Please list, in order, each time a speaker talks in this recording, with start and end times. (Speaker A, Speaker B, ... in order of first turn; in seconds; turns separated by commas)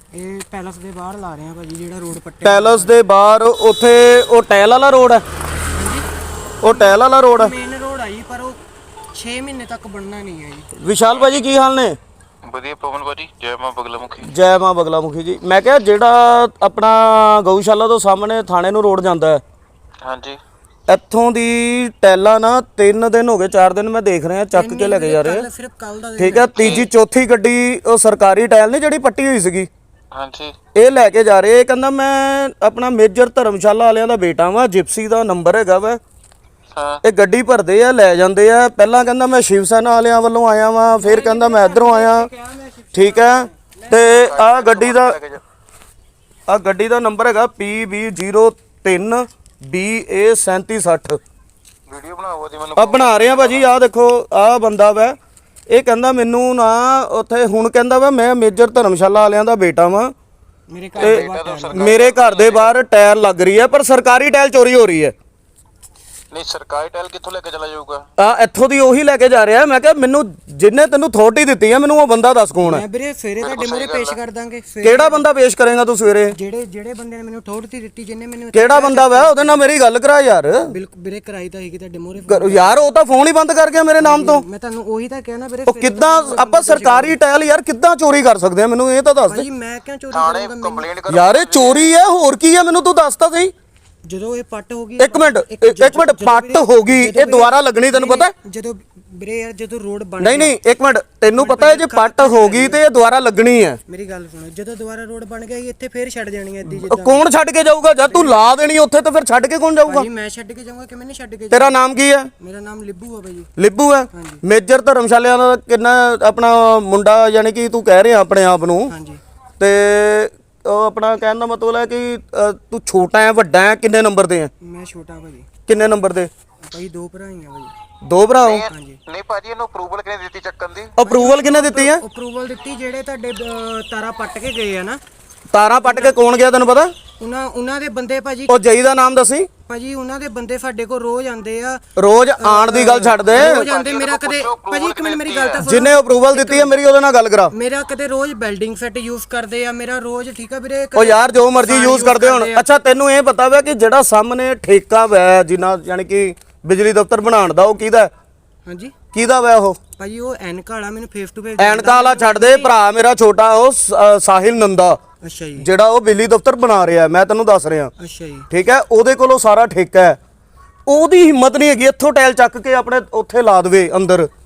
Speaker A: 0.1-3.0, Speaker B: 2.4-5.2, Speaker A: 5.7-6.0, Speaker B: 6.6-7.5, Speaker A: 6.6-8.6, Speaker A: 9.1-10.7, Speaker B: 10.8-12.0, Speaker C: 12.4-14.3, Speaker B: 14.2-19.4, Speaker C: 20.0-20.4, Speaker B: 20.9-25.5, Speaker A: 24.5-26.7, Speaker B: 26.2-29.7, Speaker C: 26.6-26.9, Speaker C: 30.1-30.6, Speaker B: 30.7-36.0, Speaker C: 36.7-37.0, Speaker B: 37.0-42.3, Speaker A: 40.9-44.0, Speaker B: 42.9-45.1, Speaker C: 44.0-45.4, Speaker B: 46.5-51.2, Speaker C: 51.9-53.7, Speaker B: 52.8-55.2, Speaker B: 55.7-60.1, Speaker A: 60.7-61.9, Speaker C: 60.9-62.7, Speaker B: 61.0-65.1, Speaker C: 66.3-68.0, Speaker B: 68.2-72.8, Speaker A: 72.6-75.2, Speaker C: 73.4-74.2, Speaker B: 74.8-76.4, Speaker A: 76.3-79.6, Speaker B: 78.5-80.7, Speaker A: 80.7-82.8, Speaker B: 82.3-84.4, Speaker A: 84.0-87.2, Speaker B: 85.7-89.5, Speaker A: 89.2-90.9, Speaker C: 90.1-92.0, Speaker B: 91.1-93.5, Speaker A: 94.0-100.6, Speaker B: 95.0-98.3, Speaker B: 100.2-103.8, Speaker A: 101.3-102.8, Speaker A: 103.9-107.2, Speaker B: 106.7-110.0, Speaker A: 108.0-108.4, Speaker A: 109.8-111.8, Speaker B: 111.5-112.3, Speaker A: 112.4-113.5, Speaker B: 113.6-118.9, Speaker A: 114.1-114.4, Speaker A: 118.9-119.2, Speaker B: 119.6-124.5, Speaker A: 124.6-126.0, Speaker B: 125.7-126.3, Speaker A: 126.6-127.7, Speaker B: 128.0-128.6, Speaker C: 128.4-130.9, Speaker A: 128.7-129.0, Speaker B: 131.0-132.0, Speaker A: 131.0-135.0, Speaker B: 135.5-136.9, Speaker A: 135.8-136.2, Speaker A: 137.2-138.6, Speaker B: 138.5-139.5, Speaker A: 139.7-141.8, Speaker B: 142.0-143.7, Speaker A: 142.4-146.8, Speaker C: 143.3-145.6, Speaker B: 145.6-147.5, Speaker A: 147.5-152.7, Speaker B: 150.9-158.1, Speaker A: 158.7-158.9, Speaker B: 159.1-159.8, Speaker A: 160.0-162.7, Speaker B: 161.6-165.0, Speaker A: 165.2-165.7, Speaker B: 165.6-167.9, Speaker A: 168.0-168.4, Speaker B: 168.5-170.2, Speaker B: 170.9-174.3